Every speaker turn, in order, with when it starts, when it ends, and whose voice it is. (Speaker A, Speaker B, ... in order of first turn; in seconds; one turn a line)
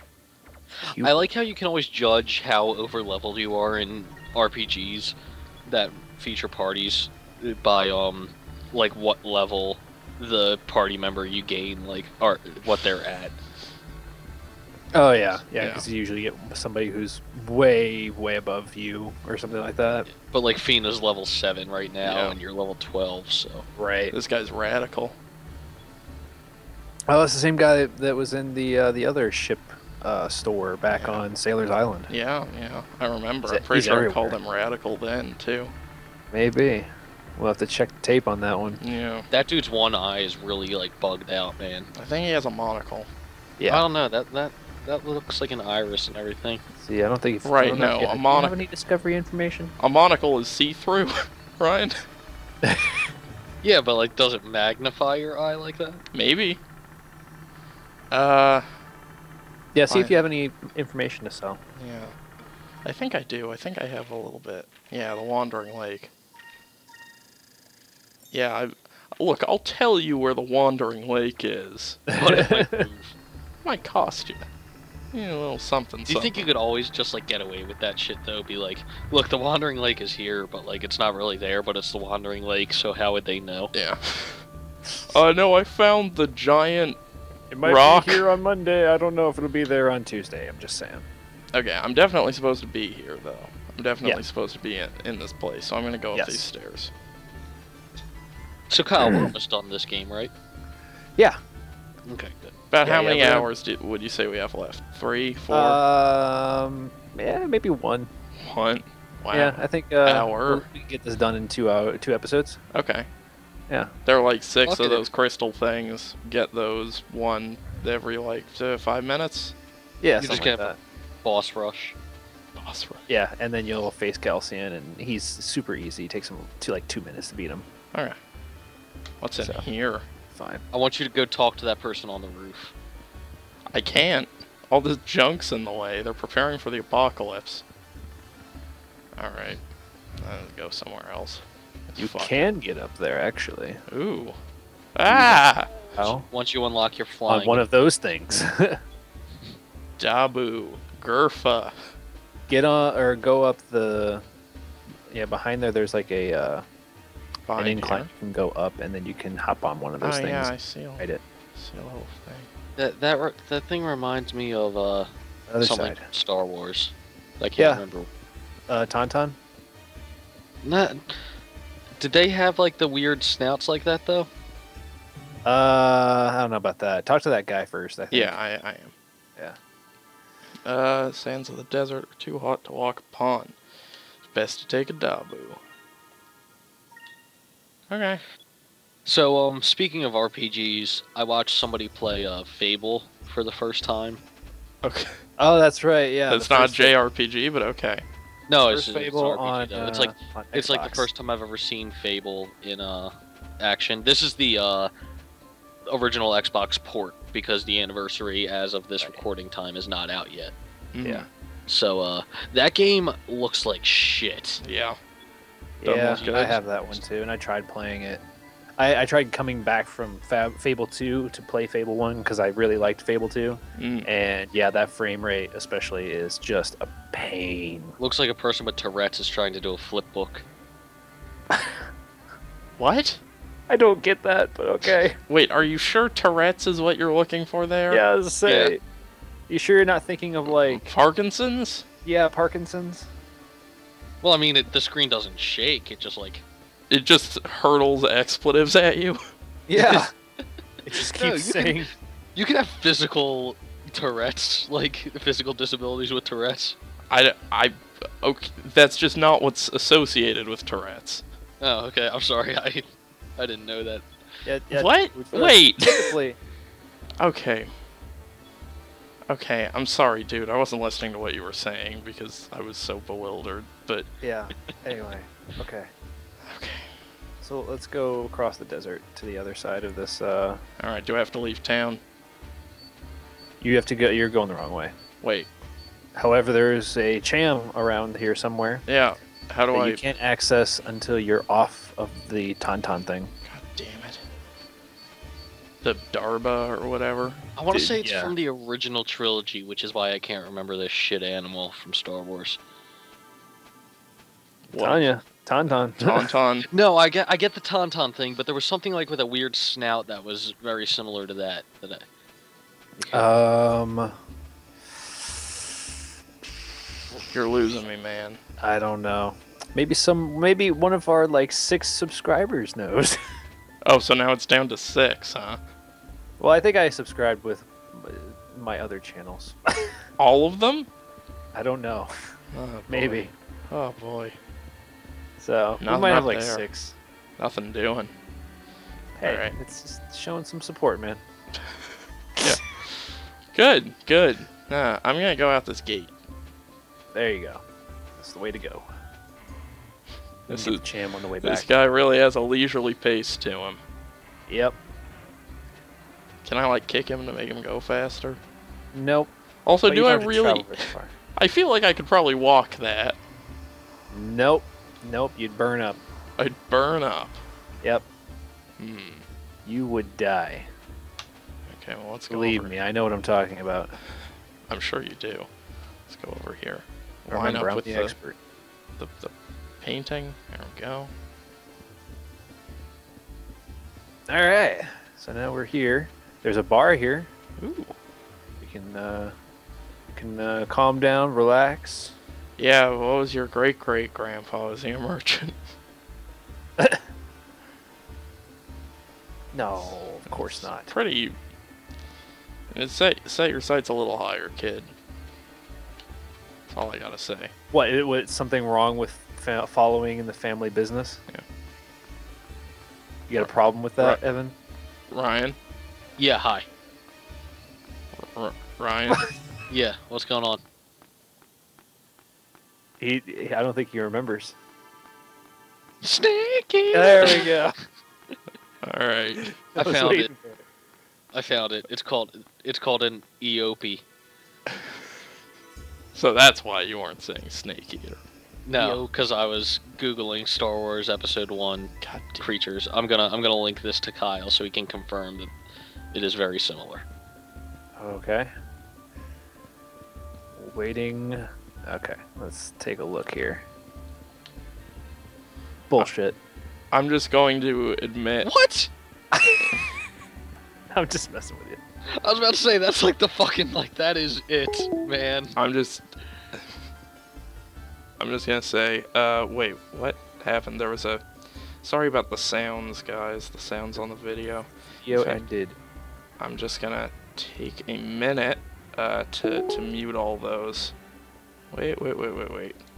Speaker A: 0.8-5.2
Speaker B: 0.9-1.3
Speaker A: 5.7-13.4
Speaker B: 14.9-20.1
Speaker C: 15.6-15.9
Speaker A: 20.1-23.7
Speaker C: 22.0-22.4
Speaker B: 23.8-24.1
Speaker C: 24.1-25.2
Speaker B: 27.1-32.1
Speaker C: 30.9-31.2
Speaker C: 32.1-35.7
Speaker B: 33.5-34.4
Speaker B: 36.3-38.8
Speaker C: 38.8-39.3
Speaker A: 39.3-41.9
Speaker C: 42.0-43.1
Speaker B: 43.6-43.9
Speaker A: 43.7-46.6
Speaker B: 46.8-49.7
Speaker C: 47.4-48.6
Speaker C: 49.8-52.0
Speaker B: 52.6-53.0
Speaker A: 53.6-56.0
Speaker C: 56.1-56.6
Speaker C: 58.1-58.7
Speaker B: 59.7-61.6
Speaker C: 59.9-60.2
Speaker C: 61.8-62.1
Speaker C: 62.9-66.1
Speaker C: 68.3-72.1
Speaker B: 72.1-72.9
Speaker A: 72.2-73.2
Speaker C: 73.7-74.5
Speaker C: 75.1-76.5
Speaker A: 76.1-83.7
Speaker C: 83.7-84.5
Speaker C: 85.1-87.0
Speaker B: 87.5-91.1
Speaker C: 87.6-88.3
Speaker C: 91.5-96.9
Speaker B: 96.1-96.5
Speaker A: 98.7-100.3
Speaker B: 99.0-99.3
Speaker A: 102.1-102.5
Speaker C: 102.7-105.8
Speaker B: 102.8-103.5
Speaker B: 105.5-108.1
Speaker C: 108.4-110.7
Speaker B: 109.3-112.6
Speaker C: 112.7-113.1
Speaker C: 114.1-119.5
Speaker A: 114.7-115.1
Speaker B: 120.0-120.8
Speaker A: 120.2-122.0
Speaker C: 122.6-123.0
Speaker B: 123.1-127.7
Speaker C: 127.9-128.2
Speaker C: 129.2-130.1
Speaker B: 130.3-130.6
Speaker A: 130.7-132.7
Speaker C: 133.7-137.6
Speaker C: 139.2-139.6
Speaker C: 140.2-142.5
Speaker B: 142.0-143.8
Speaker C: 143.9-144.4
Speaker C: 144.9-145.7
Speaker B: 145.1-145.4
Speaker B: 146.0-146.2
Speaker A: 146.0-147.7
Speaker B: 147.3-148.8
Speaker C: 150.0-151.9
Speaker B: 152.5-154.2
Speaker B: 155.1-156.7
Speaker C: 157.5-158.1
Speaker B: 157.6-161.2
Speaker C: 160.0-162.5
Speaker A: 162.8-168.1
Speaker B: 165.5-166.1
Speaker B: 167.6-167.8
Speaker B: 168.7-169.4
Speaker A: 170.6-171.3
Speaker A: 172.0-174.3
Speaker B: 175.4-178.4
Speaker C: 178.1-178.9
Speaker C: 180.7-183.6
Speaker C: 184.2-185.6
Speaker C: 187.9-188.2
Speaker A: 189.1-194.2
Speaker C: 194.8-195.2
Speaker B: 195.4-196.9
Speaker C: 196.3-198.1
Speaker A: 198.5-204.9
Speaker B: 198.7-201.1
Speaker A: 205.9-210.6
Speaker C: 210.9-211.3
Speaker A: 211.7-214.6
Speaker C: 214.6-215.0
Speaker B: 215.8-218.2
Speaker C: 215.8-216.6
Speaker A: 215.9-217.0
Speaker B: 218.8-228.0
Speaker C: 223.8-224.1
Speaker A: 228.0-230.4
Speaker B: 231.5-231.9
Speaker C: 232.8-233.2
Speaker B: 233.7-235.2
Speaker C: 235.3-238.0
Speaker B: 237.9-238.8
Speaker A: 238.5-238.7
Speaker B: 239.5-240.8
Speaker C: 240.6-241.9
Speaker B: 242.1-243.1
Speaker A: 244.2-246.4
Speaker C: 246.9-249.2
Speaker B: 249.7-250.1
Speaker A: 249.8-250.1
Speaker B: 250.9-251.9
Speaker A: 250.9-256.8
Speaker C: 257.1-261.2
Speaker A: 261.6-262.9
Speaker A: 263.4-264.1
Speaker B: 264.4-266.4
Speaker C: 264.7-266.1
Speaker C: 267.2-267.7
Speaker C: 269.3-274.1
Speaker B: 274.2-275.9
Speaker C: 276.4-276.9
Speaker B: 277.4-280.6
Speaker C: 280.8-282.0
Speaker B: 283.6-284.9
Speaker C: 285.2-285.5
Speaker B: 286.1-288.8
Speaker C: 288.9-290.0
Speaker B: 289.7-293.3
Speaker C: 293.4-294.2
Speaker C: 295.8-297.4
Speaker A: 297.6-302.6
Speaker B: 297.7-298.3
Speaker C: 304.7-305.1
Speaker B: 304.7-306.3
Speaker C: 306.0-306.7
Speaker A: 306.7-312.0
Speaker A: 313.0-313.3
Speaker B: 313.1-314.2
Speaker B: 315.2-315.5
Speaker C: 317.3-318.4
Speaker B: 318.6-323.2
Speaker C: 323.9-325.6
Speaker B: 326.4-330.0
Speaker C: 330.2-330.9
Speaker B: 331.5-332.1
Speaker C: 332.5-334.4
Speaker B: 332.9-333.3
Speaker B: 335.4-337.0
Speaker C: 335.8-336.6
Speaker C: 337.4-338.1
Speaker B: 339.2-341.2
Speaker C: 339.2-339.5
Speaker C: 342.4-343.0
Speaker C: 343.5-346.1
Speaker B: 347.1-347.6
Speaker B: 348.2-348.9
Speaker C: 350.5-350.9
Speaker B: 350.5-351.7
Speaker C: 351.4-353.8
Speaker B: 354.5-354.8
Speaker C: 356.4-358.4
Speaker B: 358.9-359.3
Speaker C: 359.6-363.2
Speaker B: 359.9-361.1
Speaker B: 364.1-366.0
Speaker C: 366.4-367.4
Speaker C: 368.8-369.2
Speaker B: 369.6-370.7
Speaker C: 371.7-372.8
Speaker B: 372.3-373.9
Speaker C: 374.7-375.5
Speaker C: 376.1-378.1
Speaker B: 377.3-378.4
Speaker C: 379.0-381.1
Speaker B: 384.3-387.3
Speaker C: 387.6-387.9
Speaker B: 388.6-389.3
Speaker B: 390.1-392.1
Speaker C: 392.6-395.6
Speaker B: 396.8-397.1
Speaker B: 399.5-400.9
Speaker C: 400.3-401.4
Speaker C: 402.7-404.9
Speaker C: 406.7-407.5
Speaker B: 407.7-411.2
Speaker B: 413.3-414.6
Speaker C: 413.4-414.2
Speaker C: 415.1-415.6
Speaker A: 416.2-416.7
Speaker C: 418.2-419.2
Speaker A: 419.7-420.6
Speaker B: 423.0-424.6
Speaker A: 426.0-427.8
Speaker B: 426.9-427.8
Speaker C: 428.8-429.6
Speaker A: 429.8-430.3
Speaker B: 429.8-430.6
Speaker A: 431.3-434.0
Speaker C: 436.1-438.2
Speaker A: 438.6-445.5
Speaker B: 438.8-439.1
Speaker C: 442.0-442.5
Speaker A: 446.1-447.1
Speaker B: 448.0-448.5
Speaker B: 450.6-453.7
Speaker B: 455.9-456.4
Speaker C: 456.9-458.5
Speaker A: 458.4-458.9
Speaker B: 459.3-459.8
Speaker B: 460.9-461.8
Speaker A: 462.2-465.6
Speaker C: 465.6-466.1
Speaker C: 468.2-471.2
Speaker C: 471.8-475.4
Speaker B: 475.0-475.8
Speaker C: 476.4-480.9
Speaker C: 481.7-482.8